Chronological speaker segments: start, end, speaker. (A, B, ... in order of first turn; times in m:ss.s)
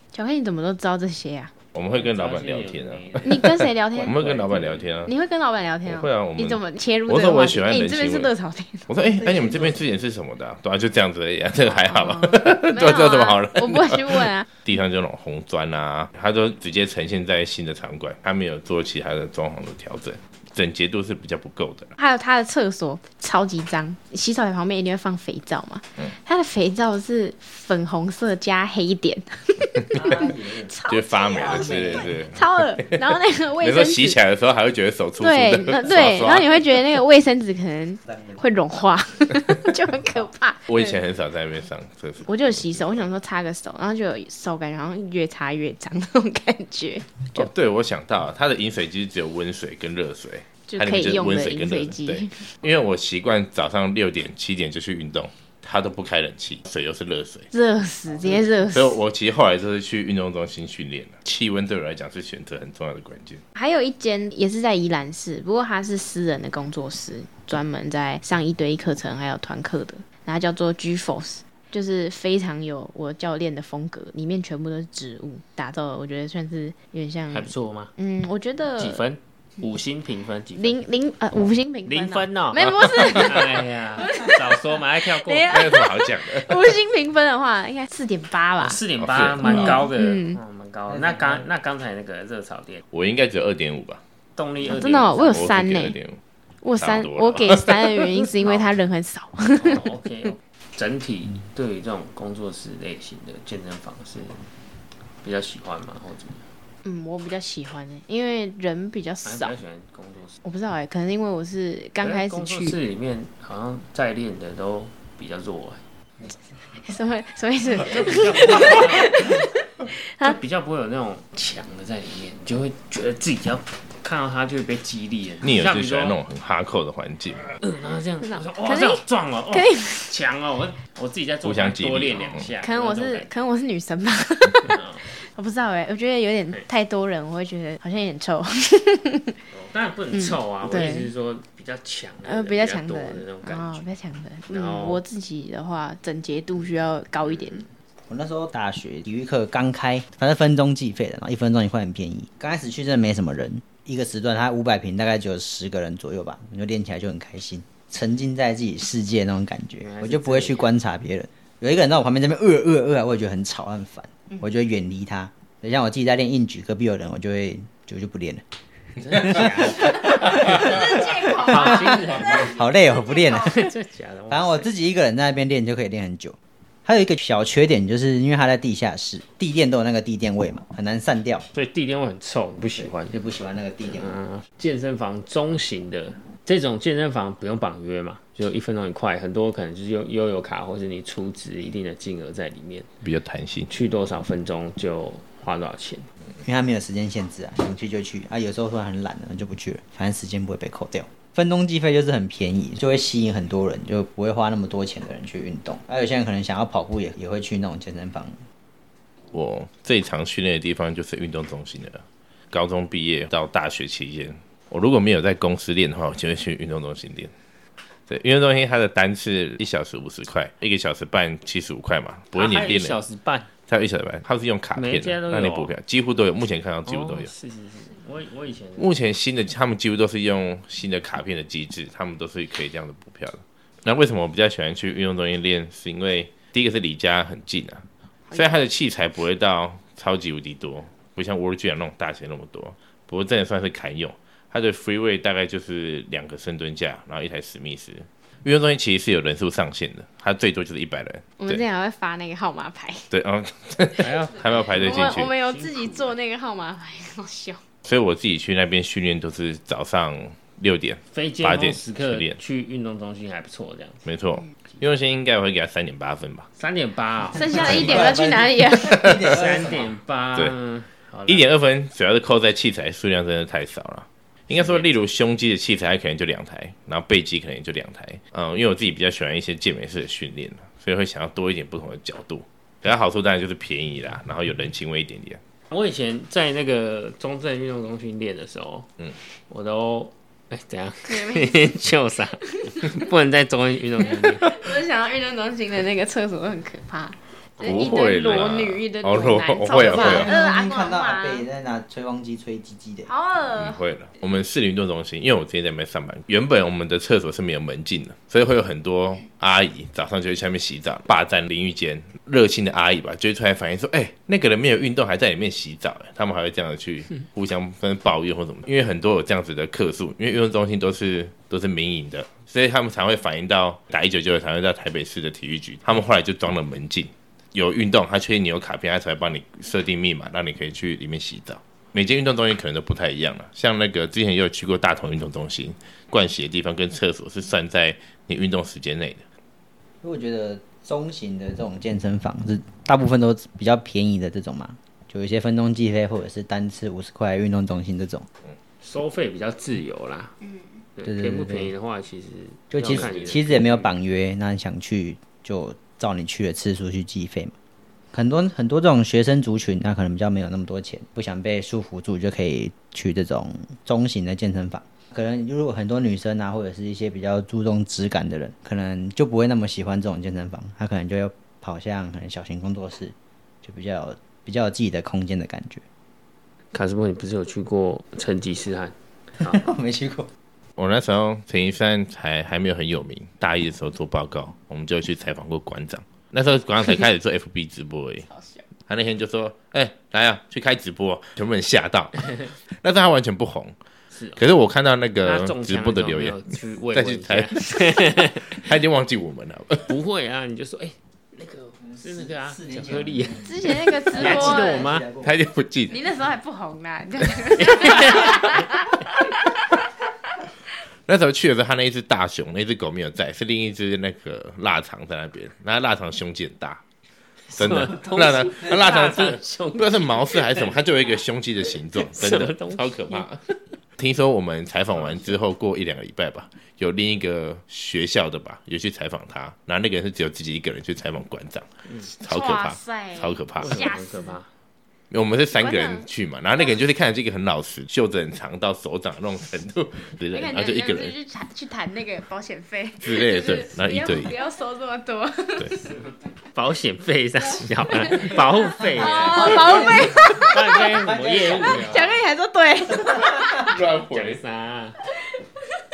0:00.1-0:01.5 A
0:01.7-0:05.1 B
0:01.9-0:04.9 C
0:03.2-0:04.2 A
0:05.0-0:08.9 A
0:05.8-0:08.3 B
0:08.9-0:21.9 B
0:09.3-0:09.7 D
0:11.6-0:14.5 A
0:22.0-0:34.2 A
0:29.9-0:32.2 D
0:30.9-0:36.6 B
0:35.2-0:41.0 A
0:38.0-0:38.5 D
0:40.7-0:43.1 B
0:42.2-0:47.5 A
0:47.4-0:57.5 B
0:50.7-0:52.5 A
0:57.5-0:59.0 A
0:58.7-1:03.4 B
1:03.6-1:19.0 A
1:17.3-1:17.9 C
1:18.8-1:20.8 C
1:20.6-1:24.5 A
1:21.9-1:25.7 C
1:25.1-1:28.8 A
1:25.5-1:26.7 B
1:28.6-1:32.8 C
1:29.0-1:29.8 B
1:29.4-1:30.4 A
1:30.9-1:31.4 D
1:32.9-1:34.0 B
1:34.4-1:35.6 C
1:34.6-1:36.0 A
1:35.3-1:36.2 B
1:36.6-1:39.9 A
1:36.8-1:38.0 B
1:38.4-1:38.7 C
1:39.5-1:44.5 C
1:45.2-1:46.5 C
1:46.8-1:49.6 A
1:49.2-1:50.4 C
1:50.4-1:52.8 A
1:52.0-1:55.8 C
1:56.7-2:00.4 A
1:57.7-1:59.4 C
2:00.2-2:06.2 C
2:05.4-2:07.5 B
2:07.6-2:13.3 C
2:08.2-2:10.1 A
2:11.4-2:12.5 B
2:12.6-2:19.4 A
2:14.6-2:15.0 C
2:19.5-2:23.9 C
2:20.1-2:21.1 A
2:22.2-2:27.7 A
2:24.5-2:25.0 C
2:27.3-2:27.6 C
2:28.1-2:48.4 D
2:39.8-2:40.7 C
2:49.0-2:54.7 C
2:49.1-2:51.7 D
2:50.9-2:52.4 A
2:52.3-2:53.6 D
2:54.3-3:01.4 D
3:01.5-3:03.2 C
3:02.8-3:04.2 D
3:03.8-3:12.9 C
3:13.0-3:13.7 B
3:13.7-3:16.1 C
3:16.4-3:28.4 D
3:29.3-3:37.3 B
3:38.1-3:43.0 B
3:42.3-3:43.5 C
3:43.7-3:47.3 B
3:44.8-3:45.7 C
3:46.9-3:48.9 C
3:48.8-4:11.6 B
4:11.4-4:13.1 A
4:13.1-4:15.3 B
4:14.0-4:16.1 C
4:14.7-4:17.6 A
4:17.8-4:22.4 B
4:21.1-4:24.1 C
4:24.1-4:26.5 B
4:26.6-4:28.2 C
4:27.3-4:29.1 A
4:27.3-4:29.9 D
4:28.9-4:29.4 B
4:29.2-4:31.5 C
4:31.3-4:45.4 B
4:34.5-4:34.9 C
4:45.7-4:54.5 C
4:51.1-4:51.7 A
4:52.4-4:52.9 A
4:54.2-5:01.4 A
4:57.6-5:00.3 B
4:59.8-5:03.1 D
5:03.1-5:03.8 A
5:03.5-5:39.2 B
5:40.0-5:48.2 D
5:48.8-5:50.4 C
5:51.0-5:53.9 C
5:51.0-5:51.7 D
5:52.7-5:57.5 D
5:53.0-5:53.2 B
5:58.1-6:15.8 D
6:16.7-6:19.7 C
6:19.4-6:20.3 D
6:20.8-6:28.2 B
6:28.3-6:28.6 A
6:28.9-6:33.8 B
6:34.1-6:34.4 C
6:34.4-6:36.4 B
6:35.2-6:38.6 C
6:36.9-6:37.9 B
6:38.5-6:40.0 B
6:39.9-6:45.1 C
6:41.9-6:45.4 D
6:43.4-6:44.9 A
6:45.2-6:46.0 B
6:45.9-6:48.7 A
6:47.6-6:48.5 C
6:51.1-6:56.8 B
6:57.5-7:00.8 C
6:57.5-7:03.4 B
7:01.7-7:03.3 C
7:04.0-7:11.7 B
7:04.9-7:05.4 C
7:12.2-7:13.8 B
7:12.2-7:14.4 A
7:13.6-7:14.5 C
7:15.1-7:21.1 B
7:15.5-7:16.1 A
7:20.3-7:25.8 A
7:23.0-7:24.3 B
7:25.7-7:32.2 C
7:28.9-7:30.8 A
7:29.2-7:32.2 D
7:31.7-7:33.8 A
7:33.2-7:34.4 B
7:34.0-7:35.0 C